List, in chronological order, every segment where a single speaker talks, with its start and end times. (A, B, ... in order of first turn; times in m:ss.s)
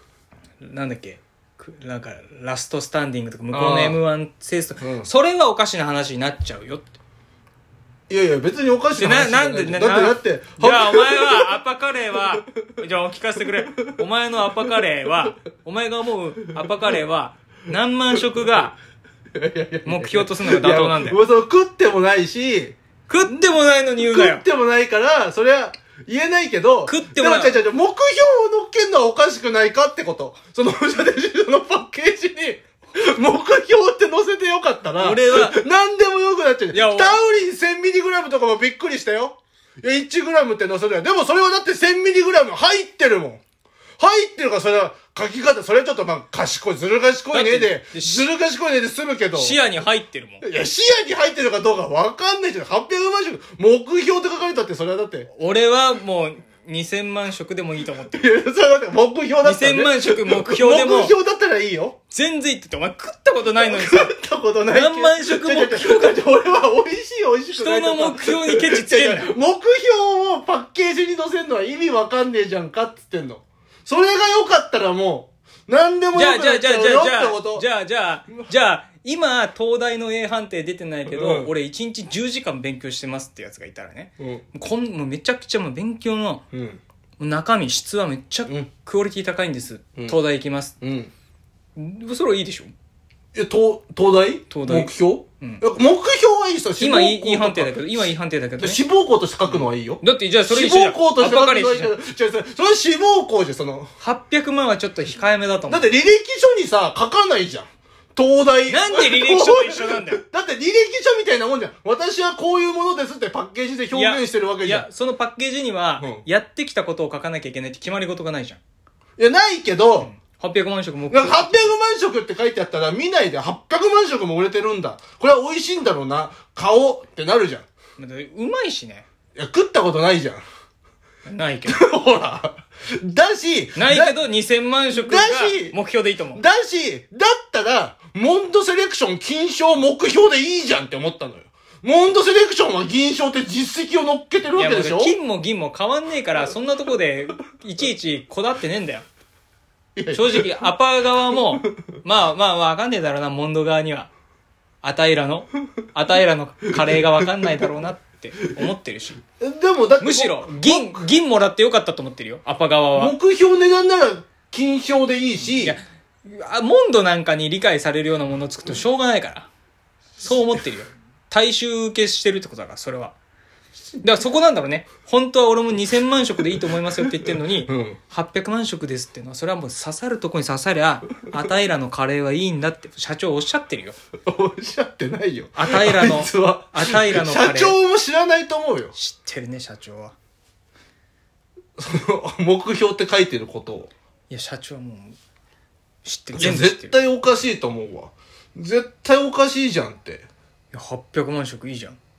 0:00.6-0:07.0 A
0:03.5-0:04.0 B
0:04.8-0:05.1 B
0:08.1-0:11.6 B
0:09.0-0:18.8 A
0:19.4-0:22.8 B
0:19.9-0:21.2 A
0:23.1-0:24.4 A
0:24.0-0:43.4 B
0:26.8-0:27.6 A
0:35.0-0:35.6 A
0:36.7-0:37.2 A
0:44.0-0:49.6 B
0:47.3-0:48.3 A
0:49.3-0:50.4 A
0:50.4-0:55.3 B
0:55.3-0:58.3 A
0:58.1-1:02.0 B
0:59.4-1:01.2 A
1:02.1-1:04.2 A
1:03.6-1:17.7 B
1:04.7-1:06.2 A
1:07.5-1:09.4 A
1:16.1-1:26.4 A
1:21.1-1:21.5 B
1:24.2-1:24.4 B
1:26.5-1:26.8 B
1:27.2-1:30.8 A
1:30.8-1:31.1 B
1:31.8-1:32.7 A
1:33.4-1:44.0 B
1:34.5-1:35.6 A
1:36.8-1:38.8 A
1:39.4-1:41.9 A
1:44.0-1:45.9 A
1:45.7-1:54.9 B
1:48.7-1:50.2 A
1:53.9-1:58.6 A
1:59.2-2:00.1 B
2:00.0-2:01.7 A
2:01.1-2:07.7 B
2:08.0-2:09.0 A
2:09.4-2:10.4 B
2:11.3-2:11.8 A
2:11.7-2:14.2 B
2:13.8-2:16.4 A
2:14.9-2:15.8 B
2:16.3-2:25.2 B
2:24.5-2:29.1 A
2:30.0-2:30.7 B
2:30.1-2:34.1 A
2:34.8-2:39.2 A
2:37.2-2:37.6 B
2:39.4-2:41.1 B
2:40.0-2:43.2 A
2:43.0-2:45.8 B
2:45.5-2:49.5 A
2:50.2-2:53.2 A
2:54.0-3:04.0 A
2:57.7-2:58.0 B
3:04.3-3:09.0 B
3:05.6-3:07.8 A
3:08.9-3:10.2 A
3:11.8-3:13.9 B
3:14.3-3:15.2 A
3:16.0-3:17.0 A
3:16.3-3:20.3 B
3:20.7-3:22.0 A